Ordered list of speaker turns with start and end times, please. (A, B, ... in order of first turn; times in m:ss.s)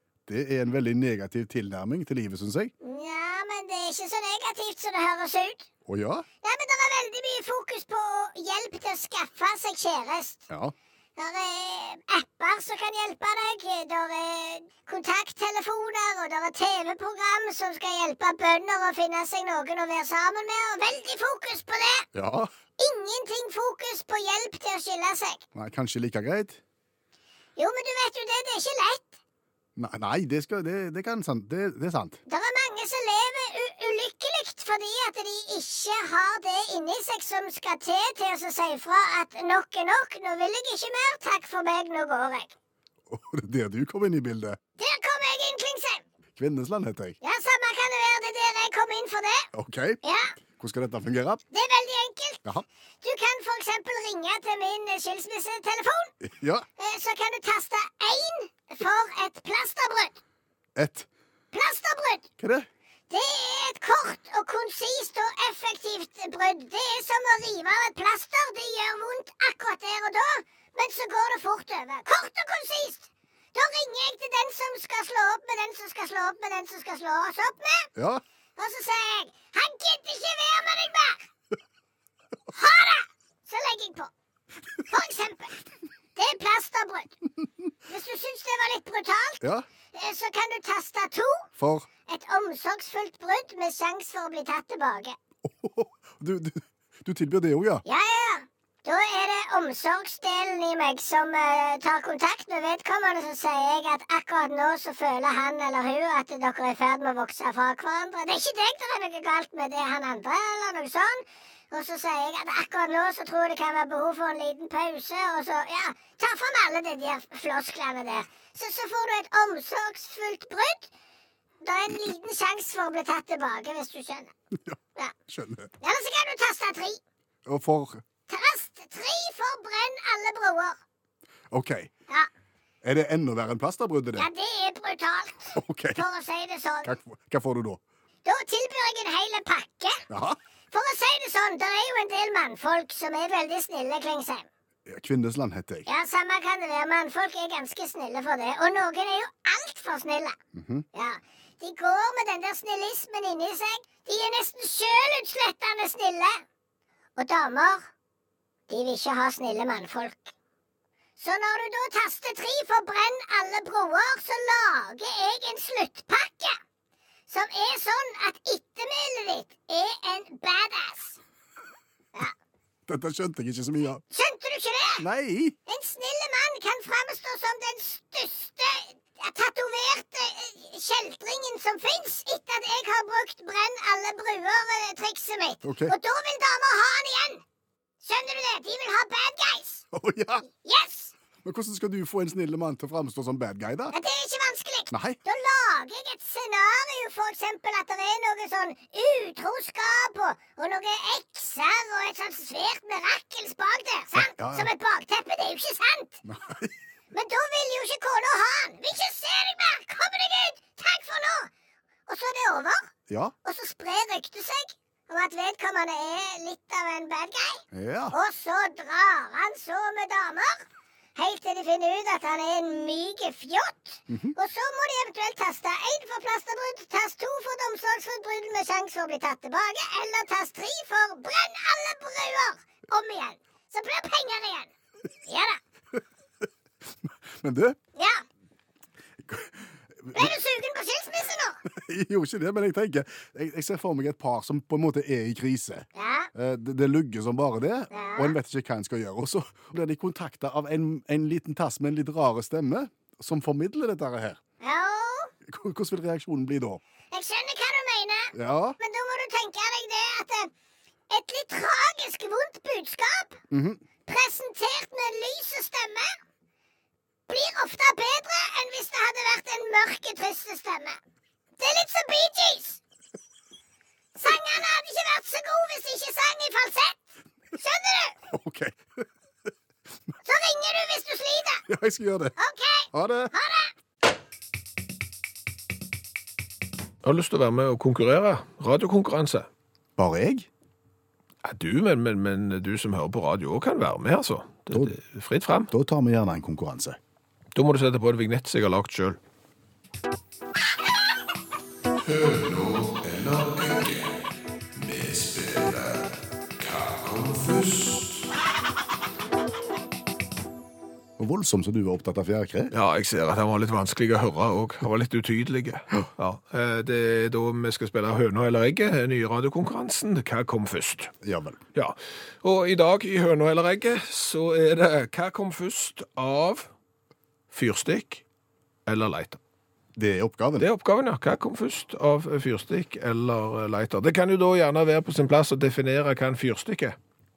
0:00.3-0:02.7 A
0:02.8-0:05.7 B
0:05.9-0:06.2 A
0:06.4-0:10.5 B
0:11.2-0:22.1 B
0:22.1-0:22.5 A
0:22.8-0:25.4 B
0:25.5-0:26.6 A
0:27.6-0:29.2 B
0:29.8-0:32.2 A
0:32.3-0:42.5 B
0:43.1-0:44.6 A
0:44.8-0:46.0 B
0:46.4-0:47.2 A
0:47.2-0:49.5 B
0:49.5-0:50.0 A
0:50.0-0:50.3 B
0:50.6-0:51.4 A
0:51.5-0:52.4 B
0:53.0-0:56.1 B
0:56.2-0:56.6 A
0:56.8-1:00.2 B
1:00.8-1:01.1 A
1:01.5-1:02.3 B
1:02.4-1:02.7 A
1:03.1-1:17.9 B
1:18.0-1:18.2 A
1:18.6-1:21.3 B
1:22.5-1:24.1 B
1:24.9-1:25.5 B
1:26.2-1:27.2 B
1:27.9-1:29.4 B
1:29.9-1:31.5 B
1:31.6-1:31.9 A
1:32.1-1:35.2 B
1:35.4-1:37.8 A
1:37.8-2:00.9 B
2:01.6-2:04.3 B
2:04.5-2:05.7 A
2:05.8-2:07.0 B
2:07.4-2:08.0 A
2:08.3-2:10.8 B
2:11.5-2:11.9 A
2:12.8-2:14.3 A
2:14.2-2:16.9 B
2:15.5-2:16.0 A
2:16.8-2:17.8 A
2:18.2-2:20.0 B
2:20.1-2:20.4 A
2:20.7-2:24.5 B
2:24.8-2:25.9 A
2:25.8-2:30.4 B
2:30.5-2:30.8 A
2:30.9-2:36.4 B
2:37.2-2:37.9 B
2:38.7-2:40.3 B
2:41.2-2:46.6 B
2:47.3-2:51.2 B
2:52.9-2:54.0 A
2:54.1-2:55.0 B
2:55.0-2:55.6 A
2:55.7-3:07.4 B
3:05.6-3:06.0 A
3:08.0-3:09.8 B
3:09.9-3:10.5 A
3:10.6-3:11.1 B
3:11.4-3:13.9 A
3:13.9-3:26.2 B
3:14.9-3:15.2 A
3:24.1-3:24.7 A
3:26.2-3:26.7 A
3:27.1-3:31.5 B
3:32.1-3:32.9 B
3:33.1-3:33.3 A
3:33.4-3:54.7 B
3:37.7-3:38.2 A
3:44.1-3:44.3 A
3:55.2-3:55.6 B
3:57.0-3:57.8 A
3:58.0-3:58.2 B
3:59.2-4:00.3 A
4:00.1-4:01.6 B
4:01.6-4:14.4 A
4:05.9-4:06.3 B
4:07.9-4:08.4 B
4:14.6-4:15.3 B
4:15.4-4:16.8 A
4:17.1-4:20.5 B
4:18.3-4:18.8 A
4:21.1-4:23.4 B
4:23.5-4:23.8 A
4:24.0-4:26.2 B
4:27.3-4:31.0 B
4:31.6-4:32.8 B
4:34.1-4:38.2 B
4:38.3-4:39.0 A
4:40.2-4:41.6 B
4:41.7-4:42.3 A
4:42.4-4:43.7 B
4:42.9-4:43.3 A
4:47.0-4:49.5 C
4:50.0-4:50.5 A
4:51.4-4:55.7 C
4:55.7-4:57.0 A
4:57.5-4:59.2 C
5:02.0-5:04.1 C
5:04.7-5:08.3 C
5:11.2-5:12.7 A
5:12.7-5:21.1 C
5:21.2-5:21.6 A
5:21.7-5:26.7 C
5:27.5-5:28.2 C
5:28.8-5:29.4 C
5:30.0-5:30.7 A
5:30.6-5:37.0 C